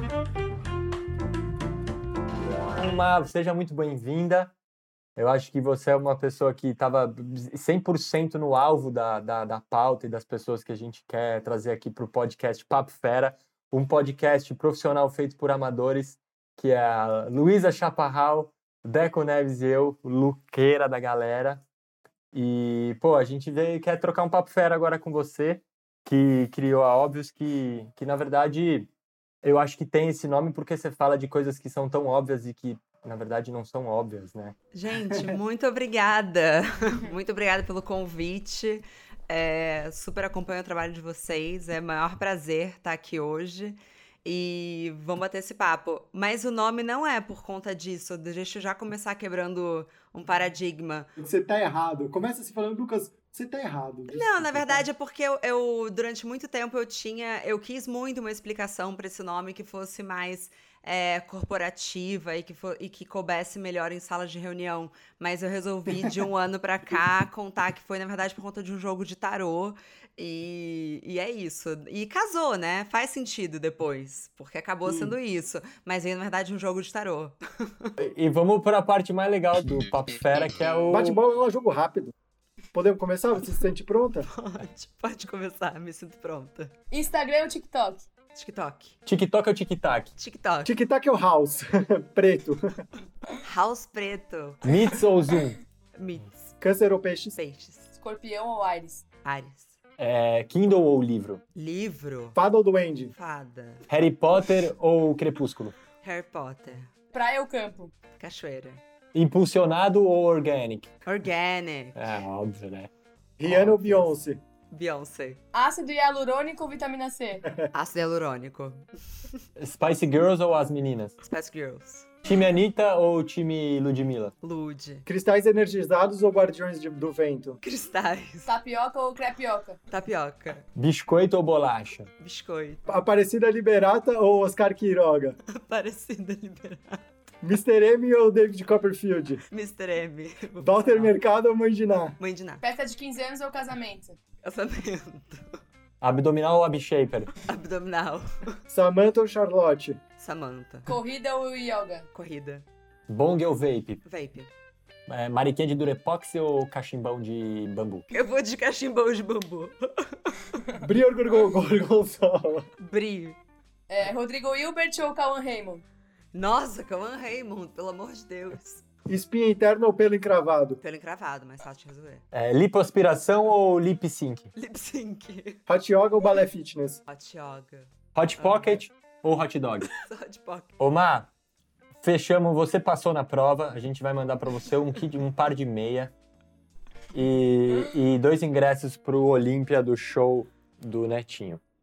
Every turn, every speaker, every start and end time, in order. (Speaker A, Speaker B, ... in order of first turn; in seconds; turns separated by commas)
Speaker A: 2.7-4.5, Speaker A: 5.2-21.6, Speaker A: 22.3-28.9, Speaker A: 29.4-34.5, Speaker B: 34.7-51.1, Speaker C: 51.2-54.8, Speaker B: 54.1-77.9, Speaker C: 74.8-75.1, Speaker A: 78.0-81.2, Speaker C: 80.9-82.1, Speaker C: 82.7-84.3, Speaker B: 84.3-86.7, Speaker D: 86.9-88.1, Speaker B: 88.3-89.0, Speaker A: 89.0-90.1, Speaker B: 90.2-90.7, Speaker C: 90.6-92.8, Speaker B: 93.4-94.7, Speaker A: 94.6-95.6, Speaker B: 95.9-96.6, Speaker C: 96.6-97.3, Speaker B: 97.3-97.9, Speaker D: 98.0-99.0, Speaker B: 99.2-99.8, Speaker A: 100.0-101.4, Speaker B: 101.5-102.4, Speaker C: 102.3-103.1, Speaker B: 103.1-103.8, Speaker A: 103.9-105.8, Speaker B: 106.0-106.9, Speaker D: 107.1-107.9, Speaker B: 108.2-108.8, Speaker A: 109.1-110.9, Speaker B: 111.0-112.1, Speaker A: 111.9-112.9, Speaker C: 113.4-114.4, Speaker A: 113.4-114.1, Speaker B: 114.7-115.4, Speaker D: 115.5-117.5, Speaker B: 117.7-119.4, Speaker A: 119.5-121.1, Speaker B: 121.2-122.2, Speaker A: 122.2-124.3, Speaker B: 124.4-125.0, Speaker C: 125.0-127.6, Speaker B: 127.6-128.5, Speaker D: 128.4-129.8, Speaker B: 129.9-130.7, Speaker A: 130.7-132.1, Speaker B: 132.2-132.8, Speaker C: 132.9-135.4, Speaker B: 135.5-137.0, Speaker C: 137.4-139.4, Speaker B: 139.5-141.1, Speaker C: 140.6-142.2, Speaker B: 142.2-142.6, Speaker D: 142.6-144.2, Speaker B: 144.4-145.6, Speaker A: 146.0-147.3, Speaker B: 147.4-148.6, Speaker C: 148.7-150.0, Speaker B: 150.2-150.9, Speaker D: 150.8-152.1, Speaker B: 152.1-152.7, Speaker A: 153.1-154.0, Speaker B: 154.0-154.5, Speaker A: 155.1-158.1, Speaker B: 158.1-160.5, Speaker C: 160.8-162.7, Speaker B: 162.8-163.4, Speaker D: 163.9-165.8, Speaker B: 166.3-168.8, Speaker C: 169.1-170.8, Speaker B: 170.8-172.2, Speaker A: 172.3-174.5, Speaker B: 174.6-175.6, Speaker C: 175.7-177.0, Speaker B: 177.1-178.8, Speaker A: 178.1-179.9, Speaker B: 179.9-180.8, Speaker A: 180.8-181.3, Speaker A: 182.0-186.1, Speaker A: 187.1-191.6